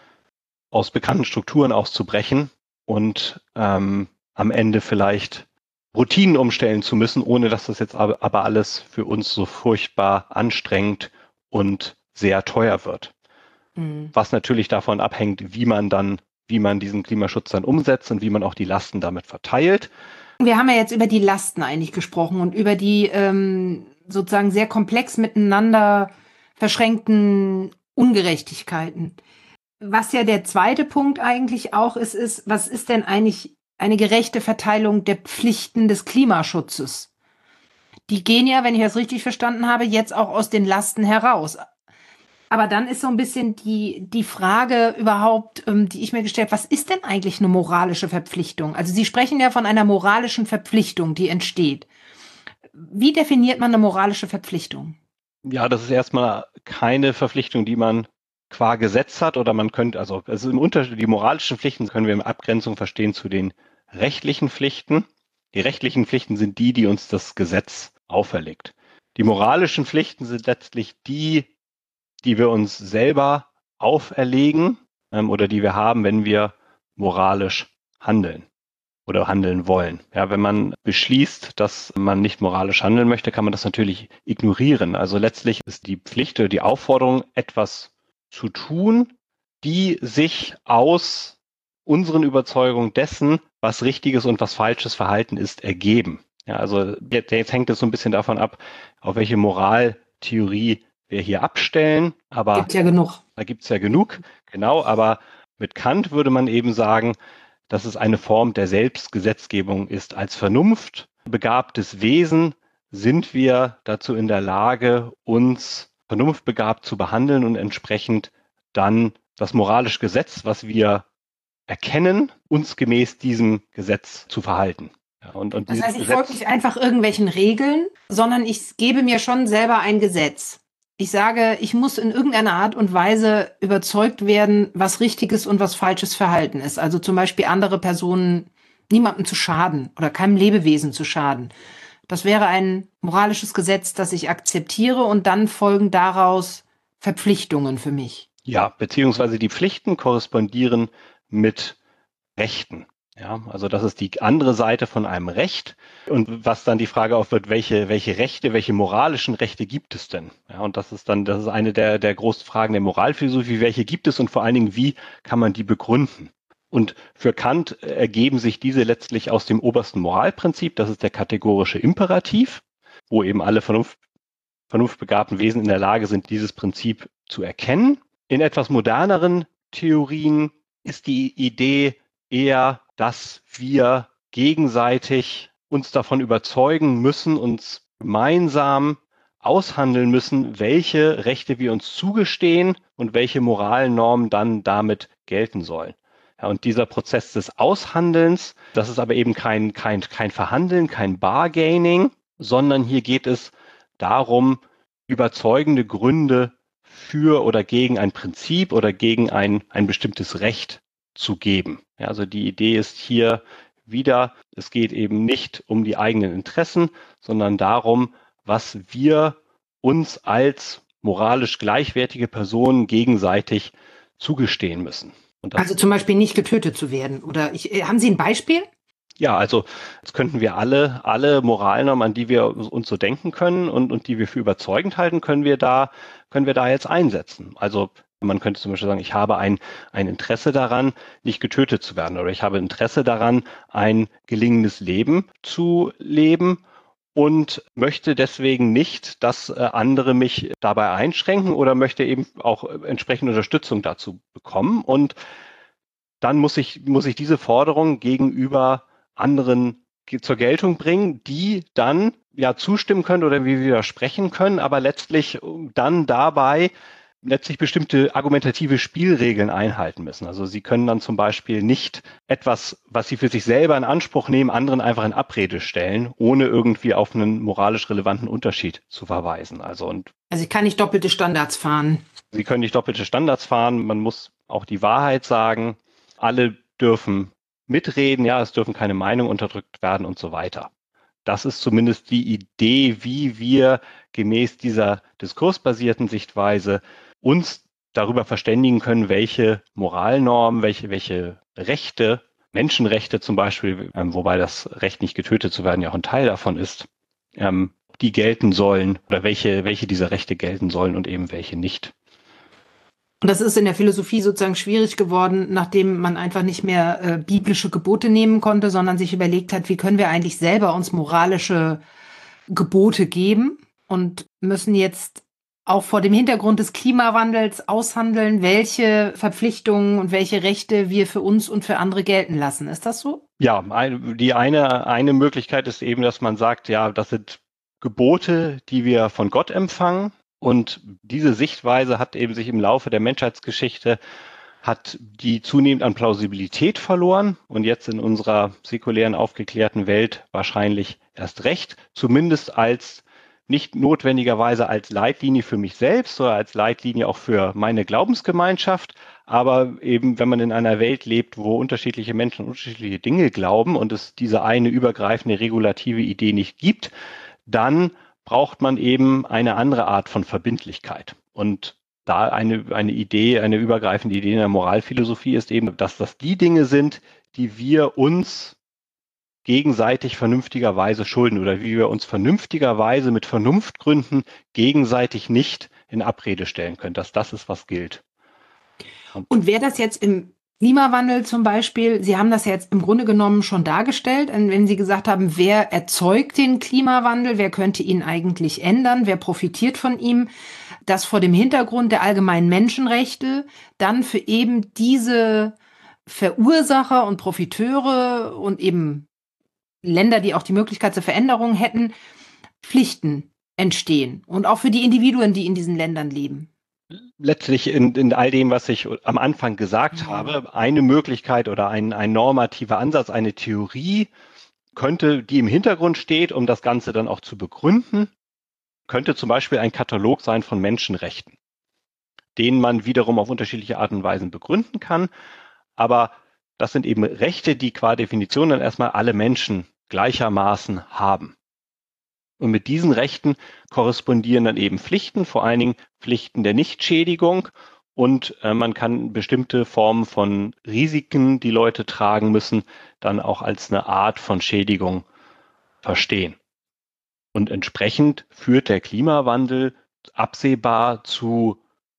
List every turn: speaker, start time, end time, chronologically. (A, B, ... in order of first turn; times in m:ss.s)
0:00.7-0:13.1 A
0:13.8-0:14.1 B
0:14.1-0:19.9 A
0:20.4-0:29.2 B
0:29.8-0:37.1 B
0:38.1-0:41.6 B
0:42.5-0:51.9 B
0:52.7-0:55.0 B
0:55.4-1:11.5 A
1:12.2-1:18.4 A
1:19.1-1:42.7 A
1:42.5-1:43.2 B
1:43.4-1:47.2 A
1:47.7-2:01.0 A
2:01.7-2:06.4 A
2:05.7-2:21.5 B
2:22.1-2:28.2 B
2:28.5-2:31.8 A
2:32.4-2:54.0 A
2:54.7-3:45.6 A
3:45.6-3:48.7 B
3:49.2-4:06.6 A
4:07.1-4:15.1 A
4:16.2-4:26.7 A
4:27.2-4:40.1 A
4:40.3-4:42.0 B
4:42.3-4:50.7 A
4:51.2-5:11.9 A
5:13.2-5:21.8 B
5:22.5-5:33.2 B
5:33.4-5:44.0 A
5:44.6-6:06.9 A
6:07.5-6:18.5 A
6:19.4-6:28.0 A
6:29.3-6:40.3 B
6:40.9-6:49.1 B
6:49.8-6:51.9 B
6:52.6-6:56.5 B
6:57.2-7:04.1 A
7:04.7-7:08.1 A
7:08.9-7:11.3 A
7:12.4-7:15.1 A
7:15.8-7:21.3 A
7:22.4-7:35.0 A
7:35.8-7:36.4 A
7:37.3-7:41.6 A